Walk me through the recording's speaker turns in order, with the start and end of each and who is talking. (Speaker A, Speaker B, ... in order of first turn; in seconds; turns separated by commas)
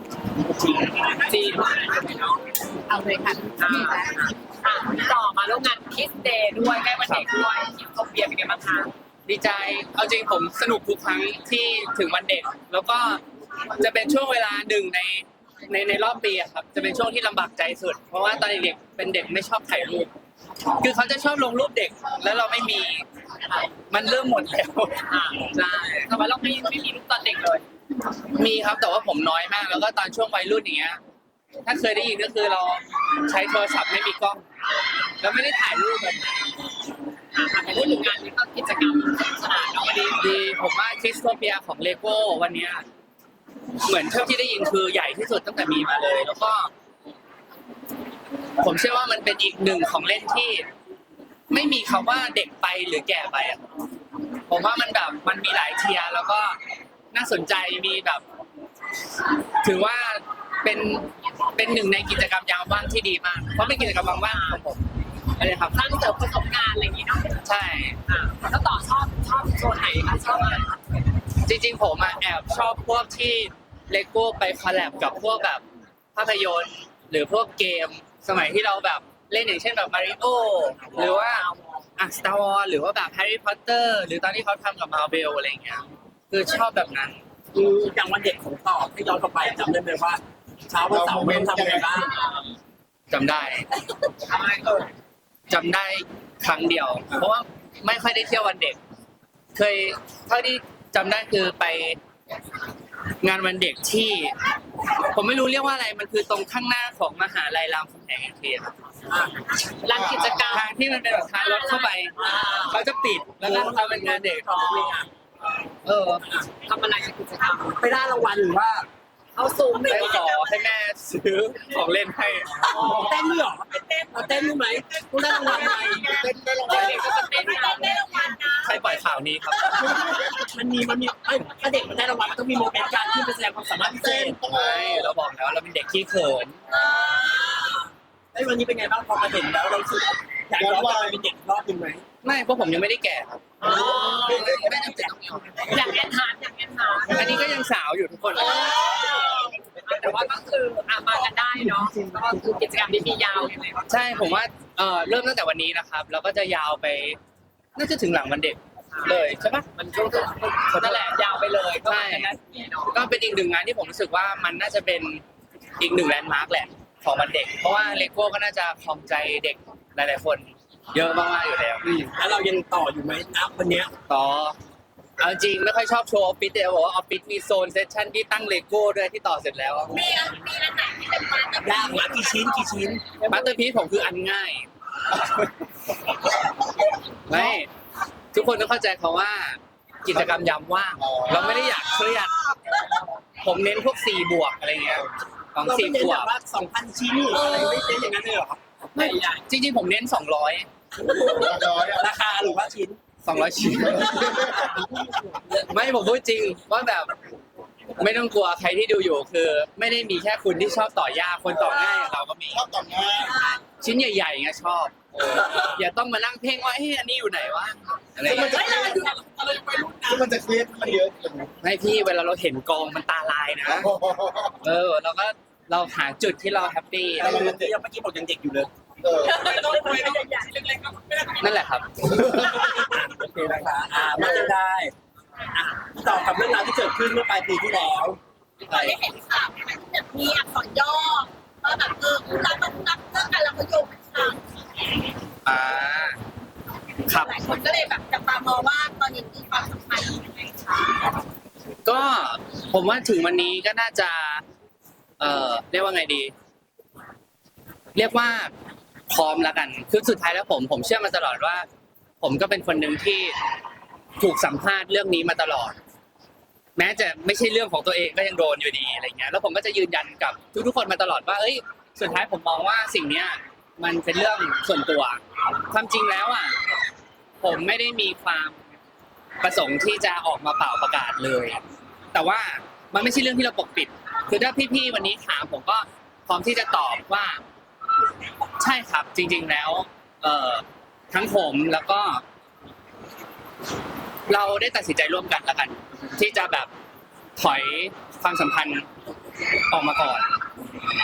Speaker A: 0.4-1.2, Speaker B: 1.0-2.4, Speaker C: 2.9-3.5, Speaker B: 3.4-8.9, Speaker D: 7.0-7.3, Speaker D: 9.3-20.1, Speaker D: 20.8-23.1, Speaker D: 23.9-26.1, Speaker B: 25.1-25.5, Speaker B: 26.0-27.6, Speaker D: 28.3-31.0, Speaker D: 31.6-34.5, Speaker D: 35.2-36.7, Speaker B: 37.3-40.4, Speaker D: 40.1-42.9, Speaker D: 43.8-46.7, Speaker D: 48.6-50.7, Speaker D: 51.5-53.6, Speaker D: 54.5-56.6, Speaker D: 57.1-58.2, Speaker D: 59.6-64.8, Speaker B: 63.6-64.7, Speaker B: 65.4-67.4, Speaker D: 65.4-65.8, Speaker D: 67.4-68.0, Speaker B: 68.1-70.8, Speaker D: 71.4-75.6, Speaker D: 76.2-87.2, Speaker A: 87.5-92.2, Speaker E: 90.9-92.0, Speaker D: 93.1-93.7, Speaker B: 94.3-94.8, Speaker D: 95.5-98.8, Speaker D: 99.5-102.0, Speaker D: 103.2-104.5, Speaker D: 105.0-108.8, Speaker A: 109.1-109.4, Speaker B: 109.8-110.7, Speaker E: 109.9-110.4, Speaker D: 110.5-114.9, Speaker B: 111.3-112.8, Speaker A: 112.2-112.5, Speaker A: 113.4-115.1, Speaker B: 114.5-115.0, Speaker D: 115.8-116.2, Speaker A: 116.2-116.5, Speaker B: 116.6-117.8, Speaker A: 117.8-118.9, Speaker B: 119.3-120.6, Speaker D: 119.9-122.7, Speaker B: 122.6-123.0, Speaker A: 122.7-127.1, Speaker E: 122.8-123.2, Speaker B: 125.2-125.8, Speaker E: 125.8-127.2, Speaker B: 126.6-128.1, Speaker C: 127.2-129.0, Speaker D: 128.6-130.2, Speaker A: 129.7-134.4, Speaker E: 130.1-130.4, Speaker E: 133.8-135.1, Speaker D: 134.5-136.6, Speaker C: 136.7-137.7, Speaker A: 137.6-142.0, Speaker E: 140.6-141.2, Speaker D: 142.2-145.7, Speaker B: 143.6-144.5, Speaker A: 143.6-145.2, Speaker B: 145.7-147.4, Speaker D: 147.1-148.8, Speaker B: 148.4-153.9, Speaker A: 148.8-149.0, Speaker D: 153.9-157.2, Speaker D: 157.8-159.7, Speaker B: 158.9-162.9, Speaker D: 160.7-161.2, Speaker D: 161.8-162.3, Speaker D: 162.9-165.2, Speaker D: 165.8-172.1, Speaker A: 172.1-173.9, Speaker D: 174.1-174.6, Speaker D: 175.2-180.1, Speaker C: 179.9-182.8, Speaker A: 181.6-183.2, Speaker D: 183.3-184.7, Speaker D: 187.3-187.7, Speaker D: 188.3-192.4, Speaker E: 191.0-191.5, Speaker D: 193.4-196.3, Speaker A: 195.6-198.6, Speaker B: 197.3-198.0, Speaker B: 198.9-199.4, Speaker D: 198.9-200.7, Speaker A: 201.0-203.0, Speaker E: 201.3-202.1, Speaker D: 203.2-204.6, Speaker E: 203.8-204.8, Speaker A: 204.3-205.6, Speaker D: 205.7-207.1, Speaker D: 208.0-212.7, Speaker E: 212.5-213.4, Speaker A: 213.3-213.6, Speaker D: 213.8-218.8, Speaker E: 215.2-215.6, Speaker E: 218.2-219.1, Speaker A: 218.3-220.3, Speaker E: 220.1-221.6, Speaker D: 221.6-224.0, Speaker E: 223.7-224.5, Speaker D: 224.6-227.4, Speaker E: 227.2-227.7, Speaker A: 227.2-228.7, Speaker E: 229.0-229.5, Speaker A: 229.4-231.3, Speaker B: 229.5-229.8, Speaker C: 229.7-230.5, Speaker D: 231.4-232.3, Speaker E: 232.2-232.6, Speaker A: 232.3-234.9, Speaker A: 235.5-238.2, Speaker C: 238.7-244.4, Speaker D: 238.7-239.0, Speaker D: 245.4-246.2, Speaker D: 247.1-247.4, Speaker C: 247.1-251.1, Speaker D: 251.8-254.4, Speaker D: 255.2-256.3, Speaker D: 257.9-258.5, Speaker D: 259.1-261.7, Speaker D: 262.2-263.4, Speaker D: 264.2-265.8, Speaker D: 266.8-276.6, Speaker D: 277.4-278.6, Speaker D: 279.4-287.4, Speaker D: 288.6-292.2, Speaker D: 294.3-296.7, Speaker D: 297.4-298.9, Speaker D: 299.7-300.3